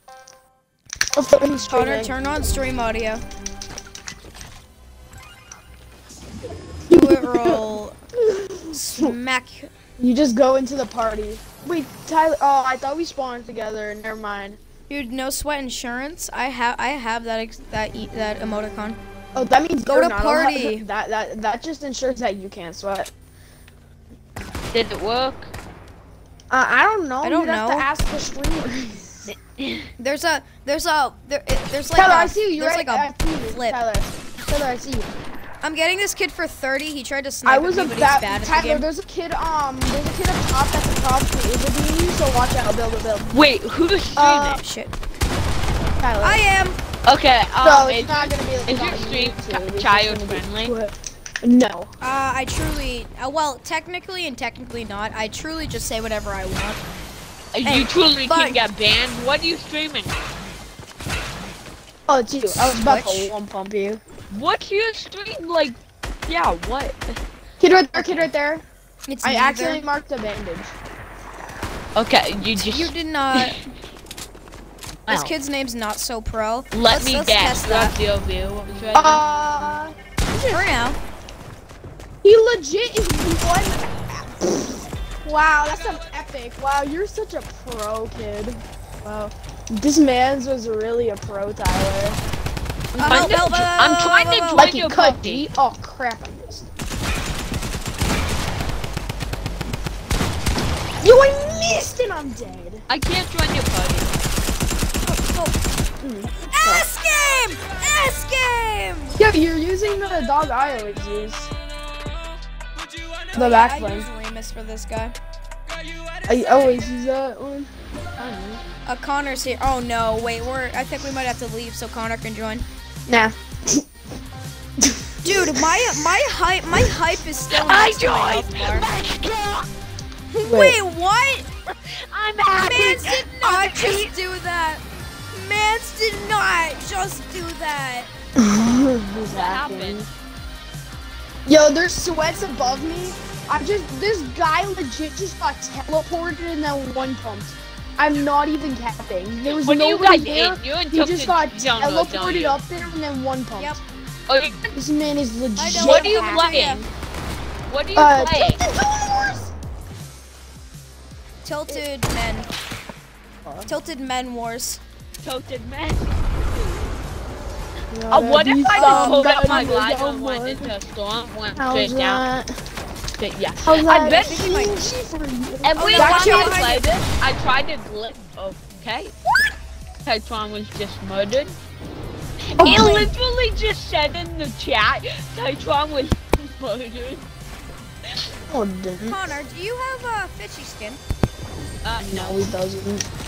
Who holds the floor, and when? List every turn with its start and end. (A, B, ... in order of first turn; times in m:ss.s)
0:01.1-0:02.2 A
0:01.7-0:03.2 B
0:06.9-0:09.2 A
0:06.9-0:07.9 B
0:08.7-0:09.7 B
0:10.0-0:14.6 A
0:14.9-0:19.0 B
0:19.3-0:23.1 A
0:19.8-0:20.8 B
0:24.7-0:25.5 C
0:26.5-0:29.3 A
0:27.2-0:27.9 B
0:29.3-0:29.9 C
0:30.0-0:33.8 B
0:31.9-0:35.1 A
0:35.6-0:38.9 B
0:37.4-0:43.3 A
0:43.3-0:44.6 C
0:44.2-0:44.6 A
0:44.6-0:44.9 B
0:46.0-0:46.4 A
0:46.2-0:46.8 B
0:47.0-0:50.7 C
0:47.6-0:51.9 A
0:52.0-0:56.8 B
0:57.5-1:00.5 C
0:57.6-0:58.6 B
1:02.1-1:04.0 A
1:02.6-1:03.3 B
1:04.3-1:05.8 C
1:06.3-1:07.2 C
1:07.6-1:08.6 A
1:08.0-1:08.2 C
1:09.1-1:09.8 B
1:09.2-1:10.7 A
1:12.0-1:13.5 C
1:12.6-1:13.6 B
1:15.1-1:15.3 C
1:15.1-1:18.0 B
1:16.7-1:19.2 C
1:18.9-1:20.6 A
1:20.5-1:21.0 B
1:22.2-1:32.2 A
1:32.9-1:35.4 C
1:33.0-1:33.4 A
1:33.0-1:34.7 B
1:34.5-1:36.7 A
1:41.0-1:42.8 A
1:42.9-1:44.3 C
1:45.0-1:45.6 B
1:46.0-1:46.9 A
1:46.5-1:49.2 B
1:49.2-1:51.5 A
1:53.3-1:55.1 B
1:53.3-1:54.1 A
1:56.2-1:58.6 A
1:58.8-2:02.6 B
2:03.1-2:03.8 A
2:04.8-2:05.6 A
2:05.2-2:08.9 B
2:07.5-2:09.7 C
2:10.4-2:11.4 B
2:10.4-2:10.8 A
2:11.8-2:14.1 C
2:12.6-2:18.1 B
2:18.4-2:20.1 A
2:19.3-2:20.0 C
2:21.4-2:33.8 A
2:29.5-2:32.6 C
2:34.3-2:34.7 C
2:34.7-2:36.7 A
2:35.6-2:36.8 B
2:35.7-2:36.9 C
2:37.7-2:38.7 C
2:38.0-2:38.6 A
2:41.4-2:42.5 B
2:43.4-2:43.7 A
2:43.7-2:44.8 B
2:45.2-2:46.2 C
2:47.9-2:50.7 A
2:48.1-2:52.2 C
2:48.7-2:49.7 B
2:51.6-2:52.5 A
2:53.2-2:54.6 C
2:53.6-2:56.7 A
2:53.9-2:54.8 B
2:55.6-2:59.2 C
2:55.8-2:57.0 B
3:00.0-3:01.6 C
3:02.5-3:07.2 C
3:02.6-3:03.1 A
3:08.5-3:09.2 A
3:09.0-3:11.0 B
3:11.8-3:12.4 C
3:12.0-3:13.1 A